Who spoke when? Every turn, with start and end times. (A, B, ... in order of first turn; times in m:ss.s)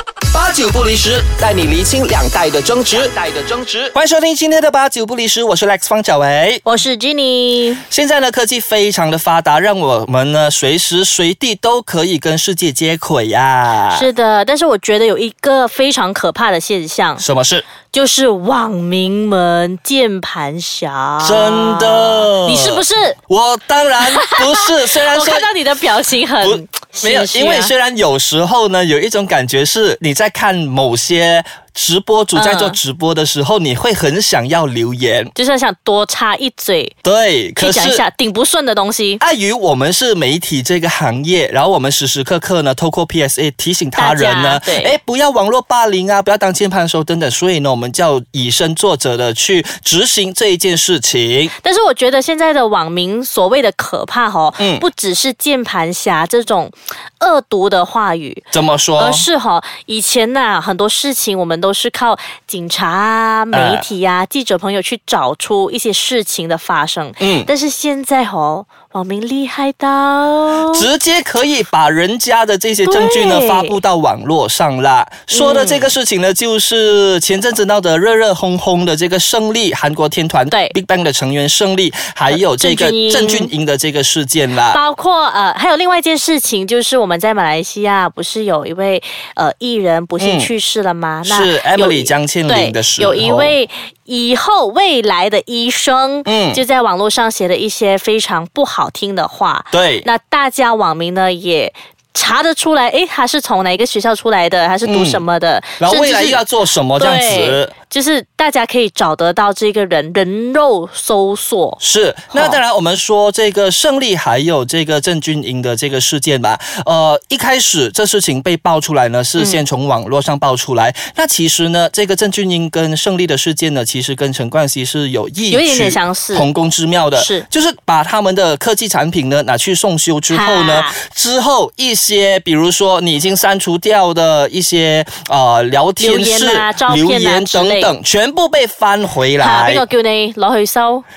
0:00.3-0:06.6 A
0:06.6-0:07.8 B
0:07.9-0:14.1 A
0:13.9-0:17.2 B
0:17.2-0:17.7 A
0:17.9-0:23.2 B
0:21.2-0:25.5 A
0:24.1-0:27.7 B
0:26.4-0:35.3 A
0:32.3-0:32.8 B
0:35.4-0:36.9 B
0:37.0-0:38.0 A
0:37.6-0:39.2 B
0:39.2-0:51.5 A
0:44.0-0:45.0 B
0:51.6-0:58.5 B
0:54.6-0:54.9 A
0:58.5-0:59.3 A
0:59.0-1:10.9 B
1:03.5-1:03.9 A
1:07.2-1:07.5 A
1:10.7-1:24.8 A
1:12.8-1:13.8 B
1:15.3-1:15.9 B
1:20.5-1:20.8 B
1:22.3-1:23.5 B
1:24.7-1:46.4 B
1:30.2-1:30.5 A
1:31.2-1:33.5 A
1:36.3-1:36.6 A
1:39.7-1:40.1 A
1:44.8-1:45.2 A
1:45.8-1:47.7 A
1:47.0-1:51.8 B
1:51.8-2:19.8 A
1:52.3-1:52.6 B
1:59.4-1:59.6 B
2:05.5-2:06.5 B
2:07.2-2:07.5 B
2:10.3-2:11.0 B
2:16.0-2:18.0 B
2:19.4-2:21.0 B